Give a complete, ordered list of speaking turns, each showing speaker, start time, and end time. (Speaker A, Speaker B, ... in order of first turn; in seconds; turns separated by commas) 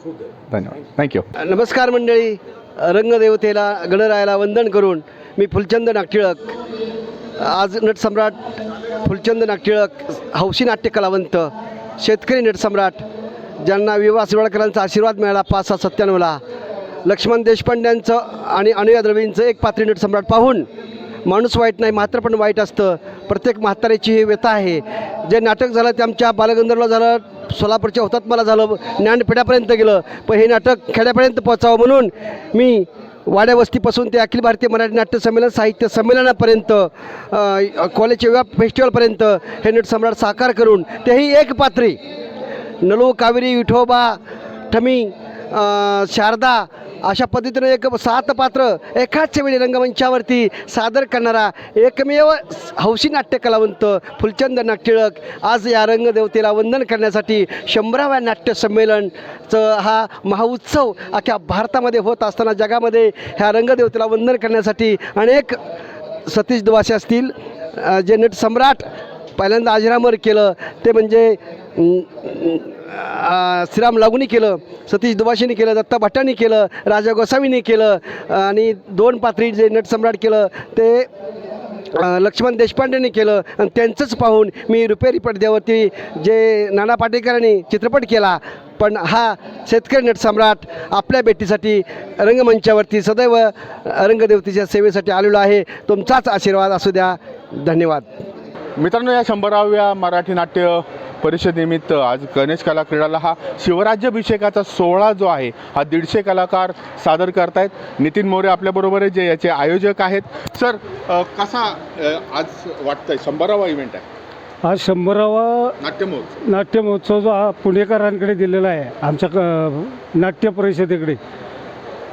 Speaker A: 0.5-1.2, Speaker B: 1.4-6.5, Speaker B: 7.4-8.3, Speaker B: 9.0-13.0, Speaker B: 13.6-16.4, Speaker B: 17.1-20.7, Speaker B: 21.2-42.0, Speaker B: 42.8-44.2, Speaker B: 44.7-65.6, Speaker B: 66.3-68.8, Speaker B: 69.4-81.1, Speaker B: 82.0-98.1, Speaker A: 98.8-114.0, Speaker C: 114.6-115.8, Speaker A: 115.8-116.4, Speaker C: 116.4-121.2